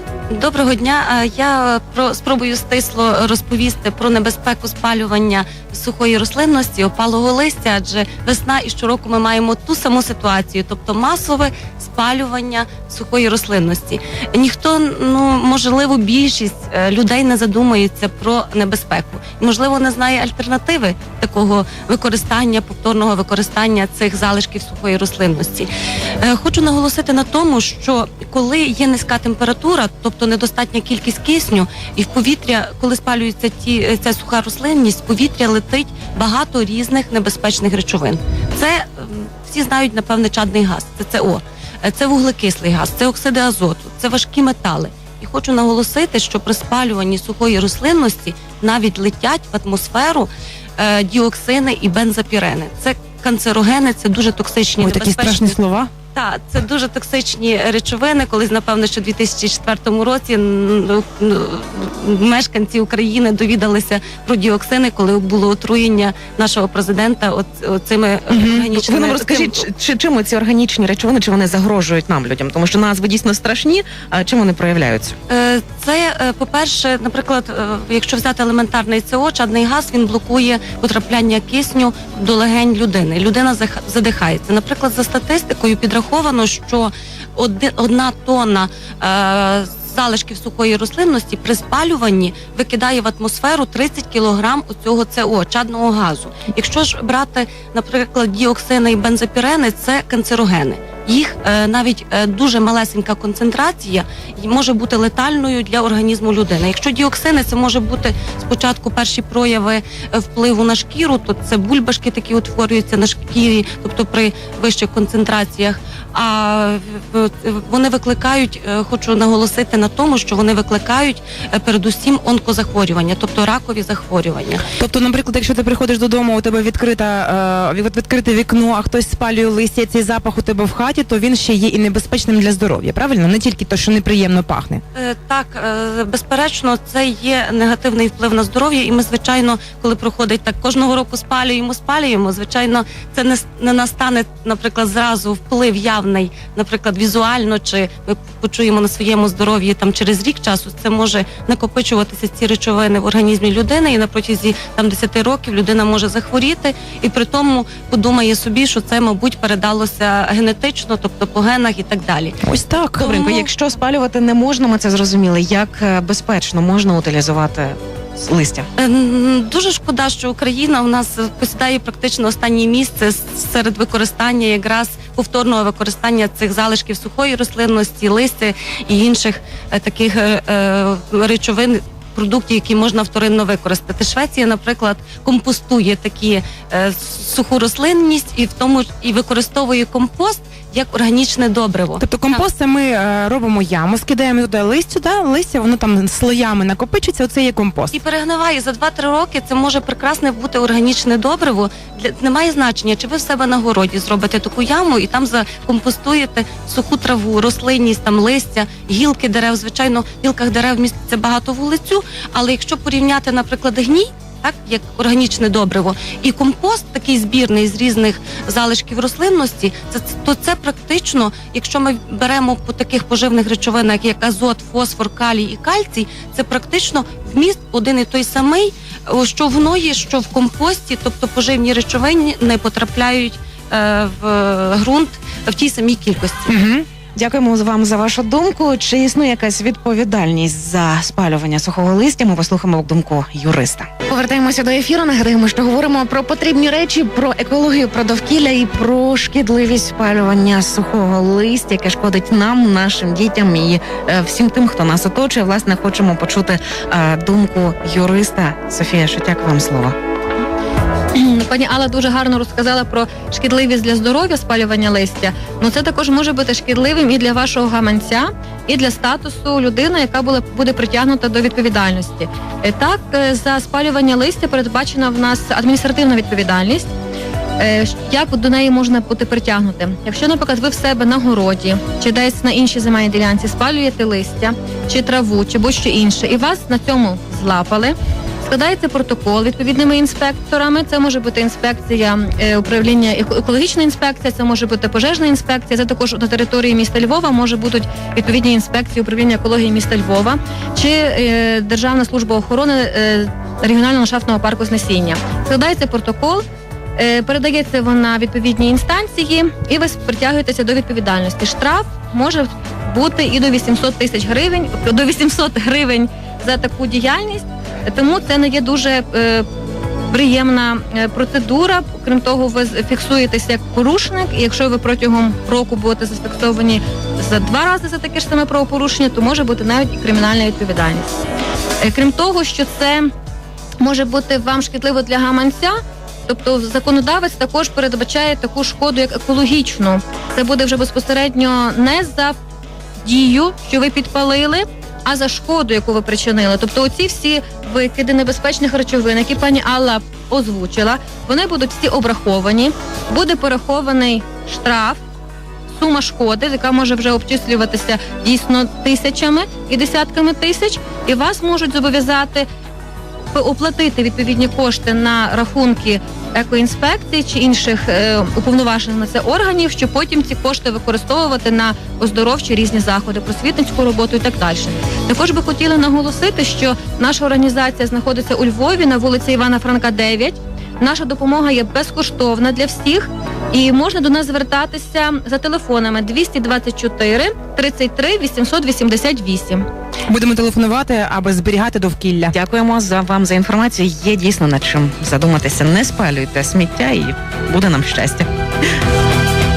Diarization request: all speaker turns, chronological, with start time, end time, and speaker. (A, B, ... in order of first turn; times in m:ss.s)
0:00.3-0:25.7 A
0:26.2-0:55.6 A
0:54.8-0:55.9 B
0:56.1-1:09.6 A
1:08.3-1:15.2 C
1:15.3-2:04.6 A
2:04.7-2:14.8 B
2:14.9-2:42.4 A
2:42.4-2:43.0 B
2:42.9-2:43.5 A
2:43.0-2:48.7 C
2:48.8-3:12.4 A
3:12.0-3:18.0 B
3:17.9-3:56.5 A
3:56.5-4:19.9 C
4:21.1-4:36.9 D
4:37.6-5:06.4 D
5:07.0-5:19.4 D
5:20.1-5:31.2 D
5:31.8-5:33.1 D
5:33.8-5:35.7 D
5:36.3-5:42.4 D
5:43.0-5:55.0 D
5:55.7-6:02.4 D
6:03.3-6:29.6 D
6:30.1-6:32.3 B
6:32.3-6:38.3 C